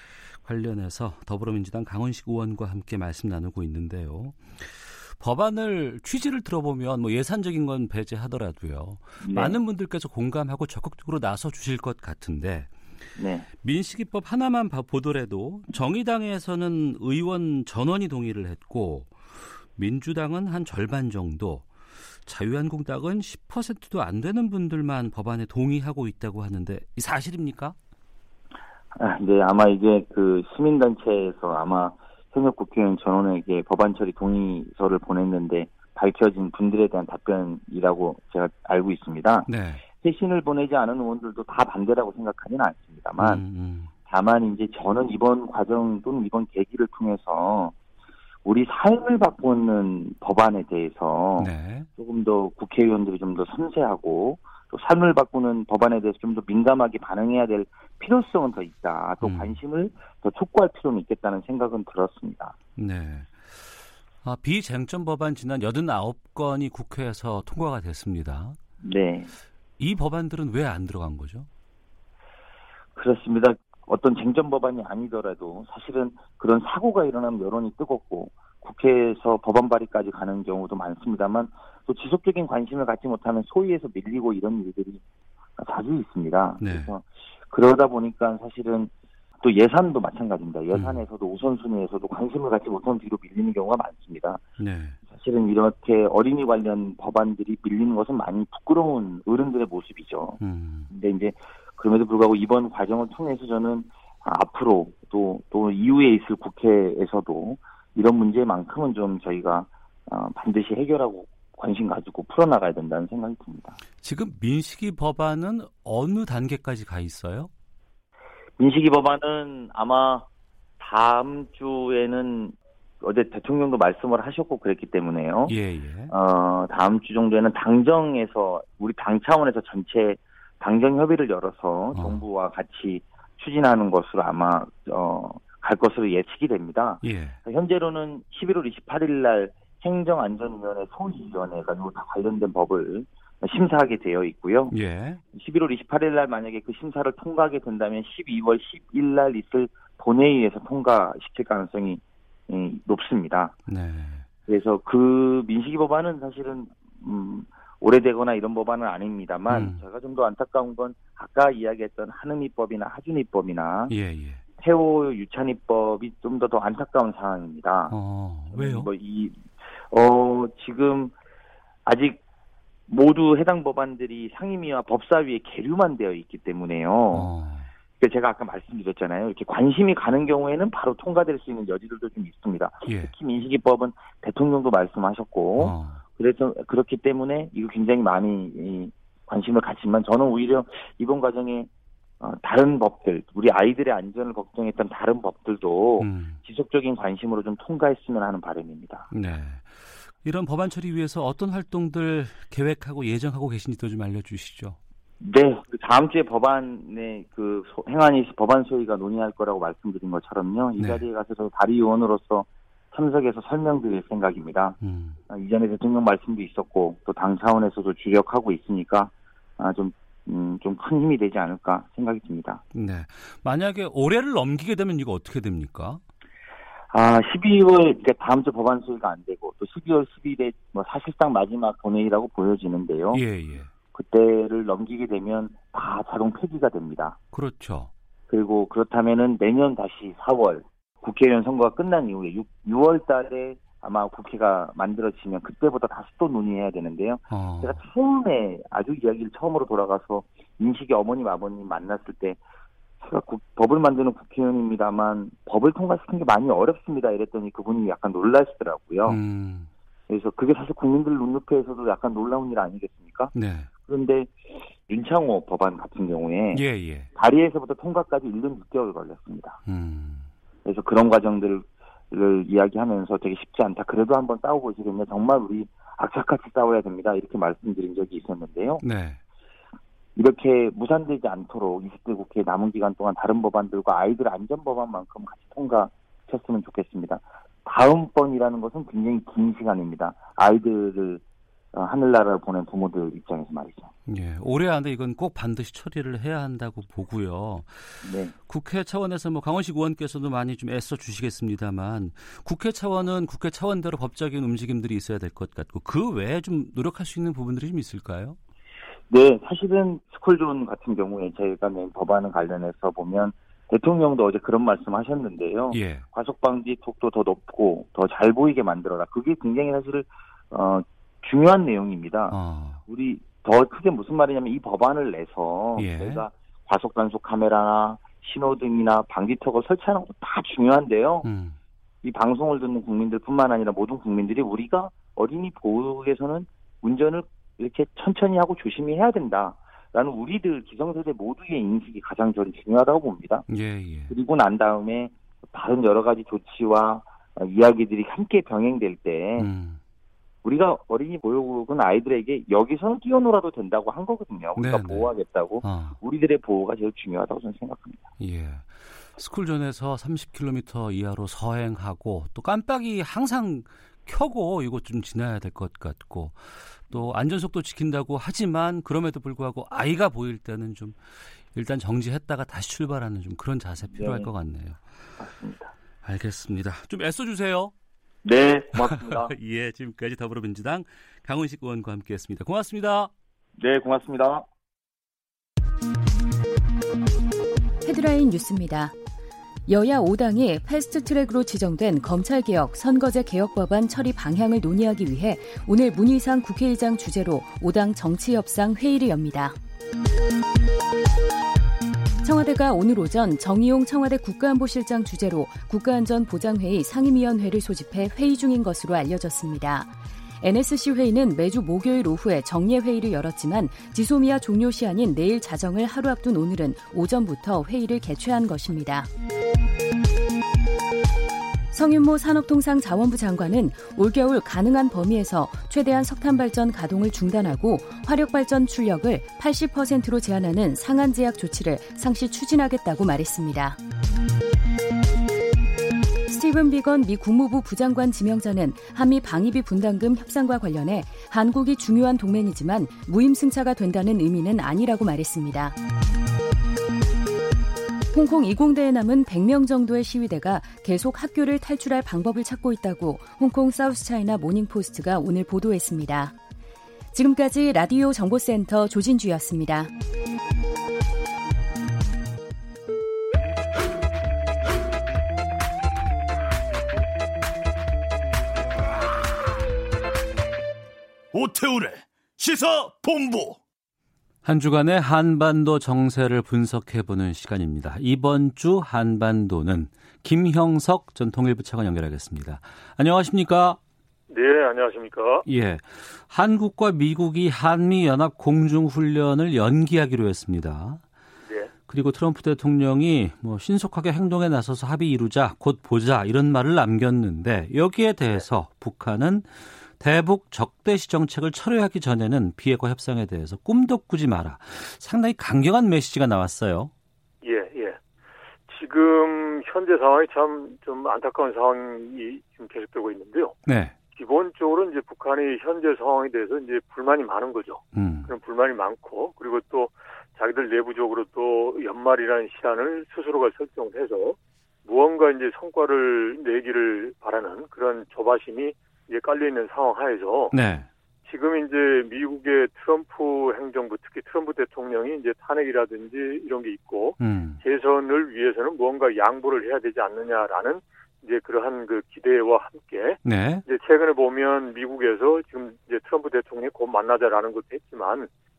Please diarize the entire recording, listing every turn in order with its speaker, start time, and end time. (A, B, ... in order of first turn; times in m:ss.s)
0:00.4-0:12.7 A
0:09.2-0:09.6 B
0:13.2-0:13.5 B
0:13.6-0:21.7 A
0:22.2-0:27.8 A
0:29.0-0:43.4 B
0:39.5-0:39.8 A
0:43.2-0:43.9 A
0:44.1-0:47.8 B
0:48.4-1:02.5 B
0:51.4-0:51.9 A
0:59.2-0:59.6 A
1:02.8-1:08.6 A
1:08.8-1:09.3 B
1:09.8-1:11.5 A
1:13.0-1:25.0 B
1:25.6-1:34.4 B
1:26.6-1:26.9 A
1:30.7-1:31.0 A
1:34.6-1:35.0 A
1:35.1-1:40.4 B
1:40.4-1:40.9 A
1:40.9-1:53.8 B
1:54.0-1:57.5 A
1:58.6-2:00.3 B
2:00.8-2:05.5 B
2:05.5-2:06.1 A
2:06.1-2:24.8 B
2:11.9-2:12.2 A
2:17.0-2:17.4 A
2:24.7-2:25.2 A
2:25.3-2:33.6 B
2:33.7-2:34.3 A
2:34.5-2:43.9 B
2:39.5-2:39.8 A
2:43.9-2:44.4 A
2:44.6-2:48.0 B
2:47.9-2:48.9 A
2:48.5-2:51.1 B
2:51.9-2:52.2 B
2:52.9-2:57.3 B
2:57.1-2:57.7 A
2:58.0-3:11.7 B
3:02.9-3:03.1 A
3:05.6-3:06.0 A
3:12.2-3:19.1 B
3:16.0-3:16.4 A
3:19.1-3:24.8 A
3:25.2-3:34.8 B
3:30.8-3:31.0 A
3:34.8-3:35.2 A
3:35.3-3:42.6 B
3:42.7-3:46.0 A
3:46.9-3:53.2 B
3:53.1-3:53.7 A
3:53.9-3:57.2 B
3:57.3-3:57.9 A
3:58.3-4:12.4 B
4:07.3-4:07.8 A
4:13.0-4:19.2 B
4:19.1-4:19.7 A
4:20.1-4:23.3 B
4:23.3-4:23.7 A
4:23.9-4:24.3 B
4:24.9-4:26.6 B
4:26.5-4:27.1 A
4:27.2-4:29.6 B
4:29.7-4:30.3 A
4:30.6-4:38.8 B
4:38.8-4:39.2 A
4:40.2-4:51.2 B
4:51.7-4:53.9 B
4:54.1-5:08.4 A
4:58.0-4:58.3 B
5:09.1-5:31.3 B
5:15.7-5:16.1 A
5:22.3-5:22.8 A
5:25.8-5:26.2 A
5:31.2-5:31.6 A
5:32.0-5:43.5 B
5:43.5-5:44.1 A
5:44.1-5:49.5 B
5:49.4-5:49.8 A
5:50.4-5:58.0 B
5:54.6-5:56.0 A
5:58.2-6:14.8 A
6:13.9-6:14.3 B
6:15.2-6:15.7 B
6:16.0-6:17.7 A
6:18.2-6:19.3 B
6:18.8-6:23.1 A
6:23.6-6:24.5 B
6:27.8-6:28.9 C
6:29.7-6:39.6 C
6:42.2-6:59.1 C
7:01.7-7:13.8 C
7:16.3-7:25.8 C
7:28.1-7:36.3 C
7:37.1-7:39.9 C
7:51.3-7:53.6 D
7:54.4-8:03.8 A
8:04.3-8:05.4 E
8:05.5-8:11.0 A
8:11.5-8:11.7 E
8:11.9-8:26.9 A
8:27.4-8:28.0 E
8:28.7-8:33.6 E
8:33.7-8:34.0 A
8:34.1-8:50.6 E
8:37.9-8:38.3 A
8:50.5-8:50.9 A
8:51.2-9:08.3 E
8:57.2-8:57.6 A
9:03.2-9:03.6 A